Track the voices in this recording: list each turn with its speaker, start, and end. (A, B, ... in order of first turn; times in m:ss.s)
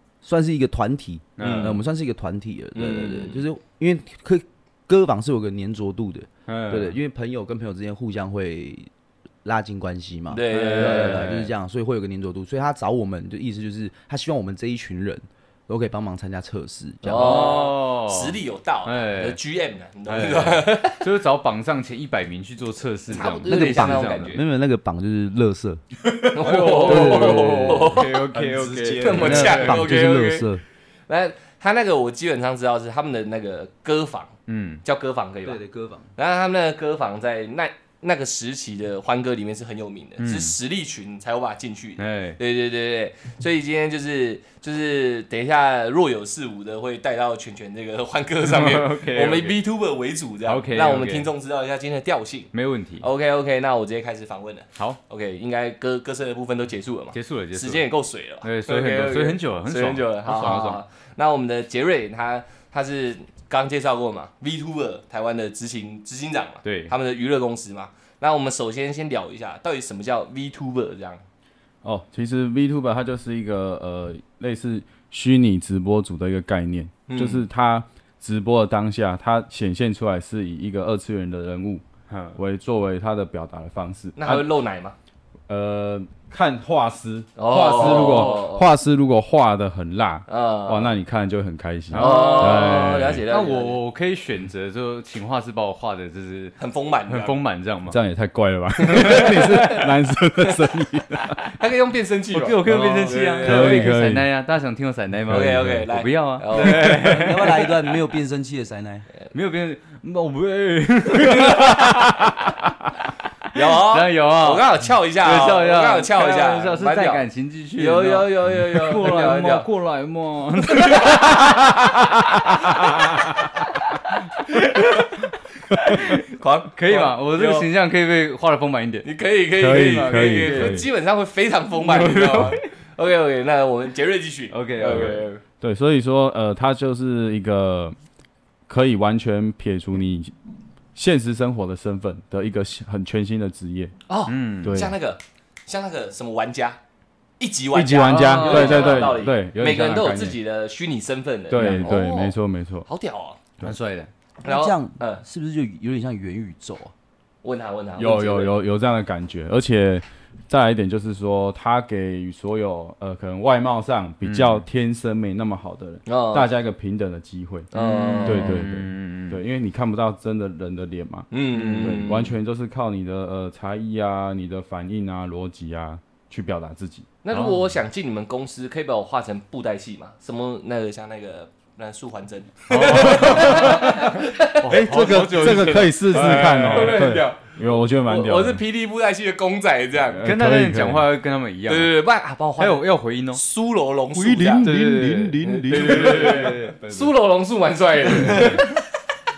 0:00.2-0:08.9 A
0:01.4-0:01.8 B
0:01.4-0:01.7 C
0:02.7-0:03.4 C
0:06.5-0:07.0 B
0:09.4-0:17.5 A
0:10.3-0:11.5 C
0:10.5-0:11.5 B
0:17.0-0:21.0 C
0:17.1-0:19.4 B
0:20.0-0:24.4 B
0:23.1-0:24.4 C
0:23.4-0:30.6 A
0:26.3-0:28.2 C
0:26.3-0:29.9 B
0:29.0-0:30.5 C
0:31.1-0:35.6 C
0:34.5-0:34.8 B
0:35.4-0:36.1 A
0:36.1-1:11.2 C
0:40.2-0:40.5 B
0:42.0-0:42.4 B
0:48.4-0:49.6 B
0:50.4-0:51.3 B
0:52.5-0:53.0 B
0:57.1-0:57.8 B
0:58.4-1:00.8 B
1:06.6-1:06.9 B
1:11.8-1:21.8 D
1:17.1-1:17.4 C
1:22.1-1:22.4 B
1:22.4-1:24.5 D
1:24.2-1:25.0 C
1:25.5-1:33.2 D
1:27.4-1:28.7 C
1:30.3-1:30.9 C
1:31.9-1:36.6 B
1:32.0-1:33.8 C
1:36.6-1:37.4 C
1:37.1-1:38.0 B
1:37.9-1:41.4 D
1:38.8-1:39.9 C
1:41.4-1:43.9 C
1:42.3-1:47.9 B
1:42.6-1:44.2 D
1:45.3-1:45.8 D
1:45.3-1:47.2 C
1:46.6-1:49.1 A
1:49.3-1:52.7 B
1:51.2-1:51.9 C
1:53.5-1:57.2 C
1:53.5-2:03.3 B
1:57.8-1:59.7 C
2:00.8-2:01.2 C
2:04.4-2:06.2 B
2:06.2-2:07.7 C
2:06.8-2:09.0 B
2:09.0-2:15.4 C
2:09.6-2:10.8 D
2:09.7-2:10.8 B
2:11.8-2:12.6 B
2:14.5-2:15.3 B
2:14.8-2:17.9 D
2:18.7-2:20.4 D
2:20.9-2:23.9 D
2:24.1-2:26.8 C
2:24.3-2:24.8 B
2:24.6-2:24.9 D
2:27.4-2:33.4 C
2:27.7-2:30.4 D
2:28.0-2:29.2 B
2:31.5-2:32.9 D
2:31.6-2:31.9 B
2:33.6-2:34.1 B
2:34.4-2:35.2 C
2:34.4-2:36.9 A
2:37.4-2:38.5 C
2:38.0-2:47.7 D
2:44.2-2:44.6 B
2:46.0-2:46.5 C
2:47.7-2:48.6 C
2:47.7-2:49.4 B
2:48.2-2:57.1 D
2:51.3-2:52.3 C
2:51.6-2:52.0 B
2:57.2-3:10.3 C
2:57.3-2:57.7 B
3:02.7-3:07.1 B
3:03.3-3:03.8 D
3:04.7-3:08.6 D
3:10.1-3:11.1 D
3:10.2-3:12.0 B
3:11.6-3:14.7 C
3:12.6-3:13.4 B
3:14.1-3:16.7 A
3:14.6-3:17.0 B
3:15.4-3:18.8 C
3:18.2-3:18.6 B